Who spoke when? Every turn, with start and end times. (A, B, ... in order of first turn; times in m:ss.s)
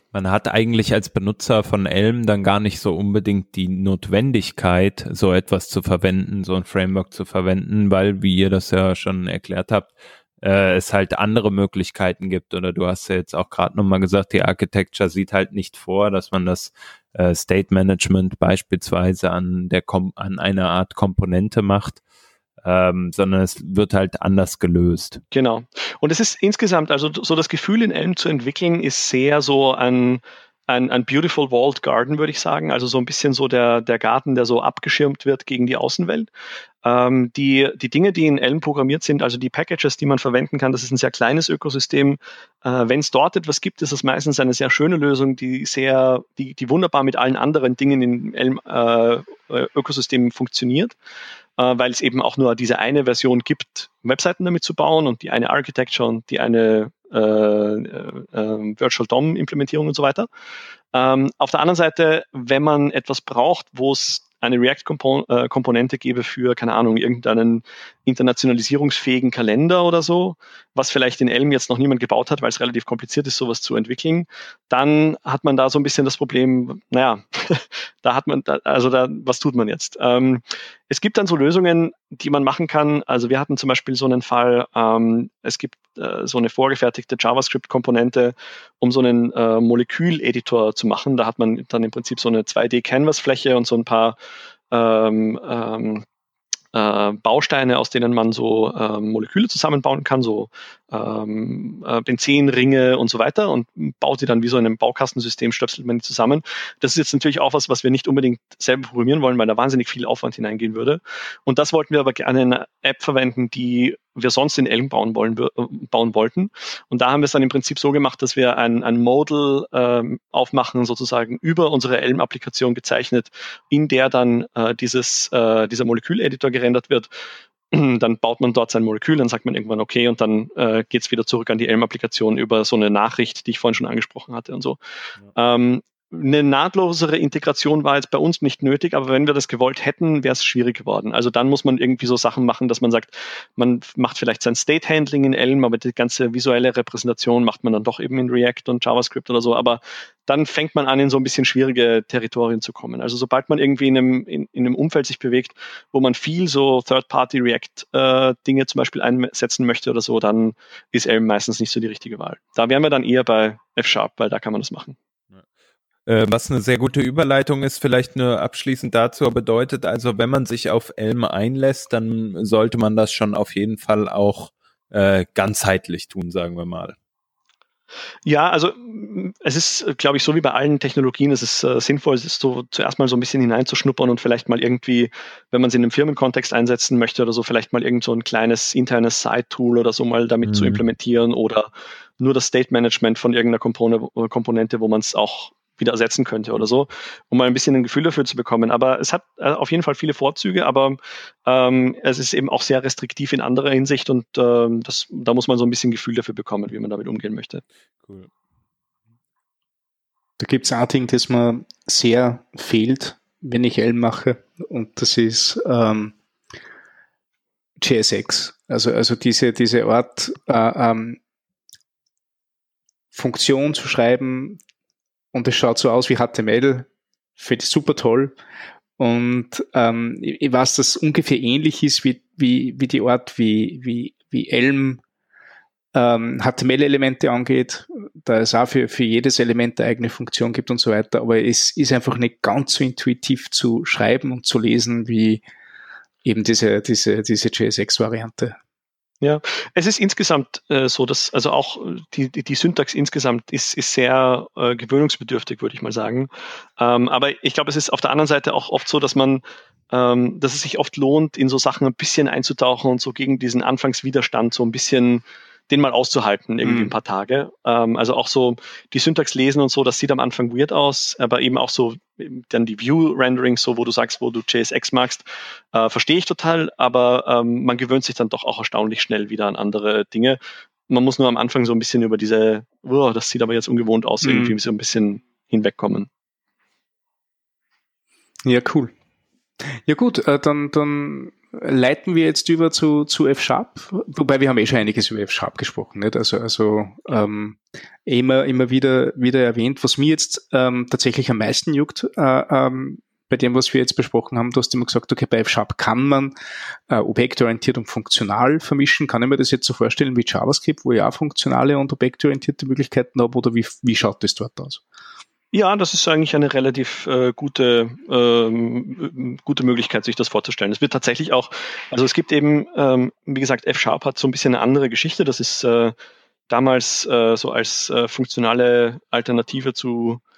0:00.1-0:22.0 A
0:22.6-0:25.2 A
0:25.3-0:36.3 B
0:36.8-0:50.9 B
0:51.6-1:00.3 B
1:00.9-1:34.2 B
1:34.7-1:36.0 B
1:36.7-2:07.1 B
2:07.7-2:14.8 B
2:15.3-2:45.0 B
2:46.0-2:57.0 A
2:58.2-3:11.7 B
3:10.4-3:10.8 A
3:12.2-3:27.6 B
3:28.0-3:28.3 A
3:30.4-3:36.1 C
3:37.8-3:41.2 C
3:43.1-3:44.6 C
3:45.3-3:48.3 C
3:49.0-3:55.0 C
3:55.9-4:05.4 C
4:06.2-4:08.6 C
4:09.2-4:40.4 B
4:26.6-4:26.9 C
4:40.9-4:46.1 B
4:44.2-4:44.5 C
4:48.4-4:48.9 C
4:49.8-5:06.3 C
5:06.9-5:14.8 C
5:15.5-5:25.9 B
5:26.5-5:30.2 B